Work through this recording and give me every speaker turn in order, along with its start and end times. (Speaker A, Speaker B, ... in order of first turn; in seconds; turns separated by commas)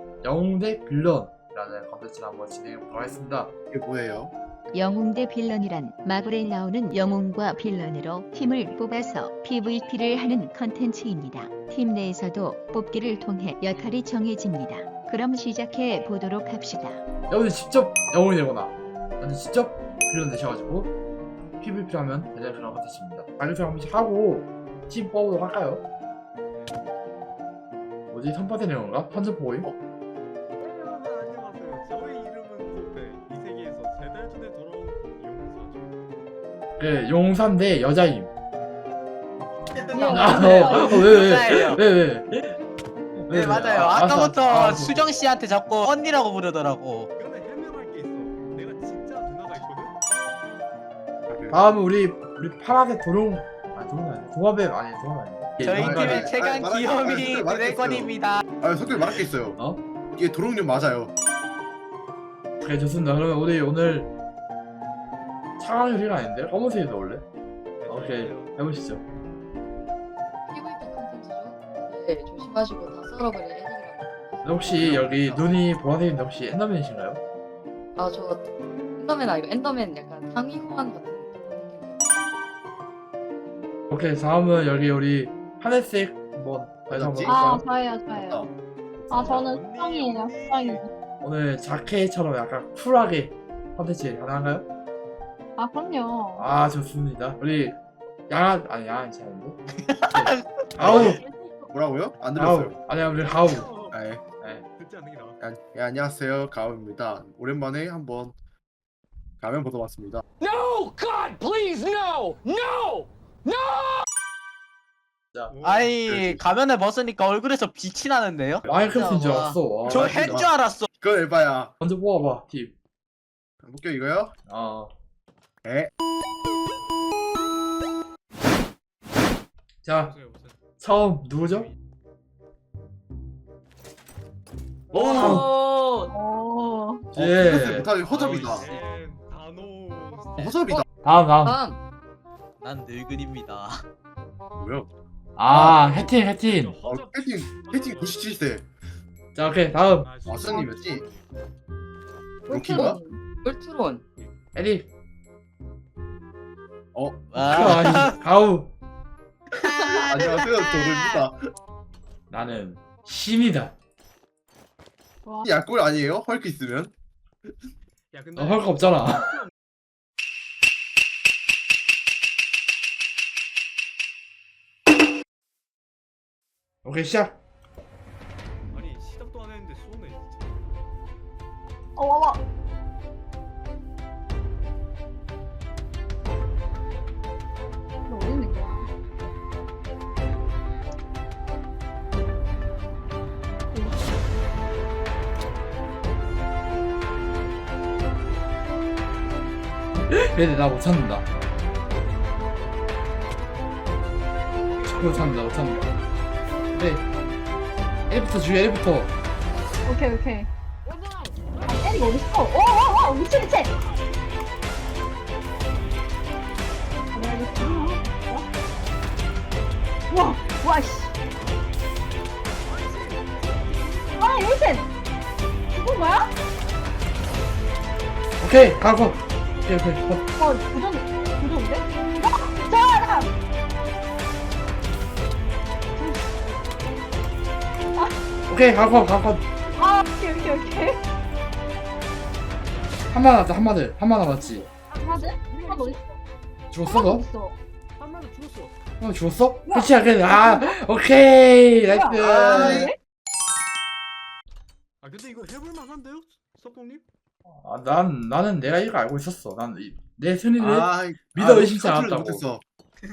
Speaker A: 0.2-3.5, Speaker B: 3.7-4.3, Speaker C: 4.7-17.0, Speaker A: 17.3-20.9, Speaker A: 21.6-25.8, Speaker A: 28.1-29.7, Speaker D: 30.6-36.0, Speaker A: 36.8-38.3, Speaker E: 39.7-41.8, Speaker D: 39.8-40.6, Speaker F: 39.9-40.9, Speaker G: 40.0-40.7, Speaker A: 40.1-42.5, Speaker A: 43.2-45.0, Speaker E: 43.3-47.1, Speaker D: 47.2-49.9, Speaker B: 51.3-51.6, Speaker A: 51.5-56.3, Speaker E: 55.6-58.4, Speaker B: 55.6-59.6, Speaker B: 60.1-61.1, Speaker A: 62.6-64.1, Speaker A: 65.6-67.2, Speaker D: 67.8-68.6, Speaker A: 67.9-69.0, Speaker G: 70.5-74.7, Speaker A: 74.4-77.2, Speaker B: 74.7-75.6, Speaker G: 78.0-78.4, Speaker G: 79.0-82.0, Speaker A: 83.9-87.6, Speaker B: 86.9-87.4, Speaker F: 87.2-88.5, Speaker B: 88.1-88.5, Speaker F: 89.1-90.9, Speaker D: 89.4-90.8, Speaker A: 91.2-94.7, Speaker F: 95.6-96.5, Speaker A: 96.4-97.8, Speaker A: 98.3-99.6, Speaker E: 99.8-101.2, Speaker A: 100.1-101.2, Speaker B: 100.8-101.2, Speaker D: 101.3-101.7, Speaker B: 101.7-102.8, Speaker A: 102.3-103.7, Speaker D: 103.2-104.0, Speaker B: 103.9-104.2, Speaker D: 104.8-105.4, Speaker B: 105.4-108.4, Speaker B: 109.4-110.2, Speaker H: 110.4-113.9, Speaker D: 115.5-116.0, Speaker E: 115.6-120.9, Speaker B: 116.0-116.4, Speaker A: 118.7-120.1, Speaker B: 119.8-121.7, Speaker A: 121.8-122.7, Speaker B: 123.6-124.3, Speaker A: 124.5-124.9, Speaker B: 125.6-125.9, Speaker A: 129.8-130.1, Speaker D: 129.9-130.6, Speaker A: 130.8-131.7, Speaker G: 134.9-135.9, Speaker A: 135.1-135.4, Speaker F: 136.1-137.0, Speaker A: 137.1-137.9, Speaker B: 137.1-138.7, Speaker D: 137.9-140.8, Speaker E: 138.4-138.8, Speaker B: 140.4-140.8, Speaker A: 141.0-141.6, Speaker G: 141.5-141.8, Speaker E: 142.6-143.8, Speaker B: 144.6-144.9, Speaker A: 145.4-146.7, Speaker B: 145.5-146.1, Speaker D: 145.6-148.4, Speaker B: 146.8-148.6, Speaker A: 149.3-150.1, Speaker D: 149.7-151.3, Speaker B: 150.2-151.0, Speaker B: 152.5-153.0, Speaker F: 152.5-153.2, Speaker G: 153.4-154.0, Speaker A: 154.5-154.9, Speaker B: 156.9-157.7, Speaker E: 157.3-158.2, Speaker A: 157.5-158.7, Speaker E: 159.5-161.2, Speaker B: 160.1-161.3, Speaker A: 162.3-163.7, Speaker B: 165.4-166.9, Speaker D: 168.1-169.5, Speaker A: 168.4-169.4, Speaker A: 176.8-177.4, Speaker D: 178.7-180.6, Speaker F: 181.9-182.4, Speaker F: 188.1-188.9, Speaker A: 200.1-201.2, Speaker D: 204.6-205.9, Speaker A: 204.9-205.9, Speaker A: 206.7-207.0, Speaker A: 208.1-209.1, Speaker F: 209.8-210.5, Speaker D: 210.8-212.1, Speaker F: 211.7-213.7, Speaker D: 213.6-214.2, Speaker D: 217.1-218.0, Speaker F: 217.1-218.4, Speaker F: 220.1-221.1, Speaker D: 222.6-224.6, Speaker F: 224.2-224.8, Speaker F: 225.7-226.3, Speaker A: 228.4-230.2, Speaker F: 230.4-233.3, Speaker F: 235.9-236.3, Speaker A: 238.5-239.4, Speaker F: 239.8-241.0, Speaker A: 243.1-244.7, Speaker D: 244.3-246.0, Speaker F: 244.9-246.2, Speaker A: 246.7-247.2, Speaker F: 246.9-247.6, Speaker D: 248.0-248.7, Speaker A: 249.0-252.9, Speaker F: 249.7-250.7, Speaker F: 251.8-253.0, Speaker B: 252.2-252.9, Speaker D: 255.0-257.0, Speaker A: 257.5-262.4, Speaker B: 260.6-262.6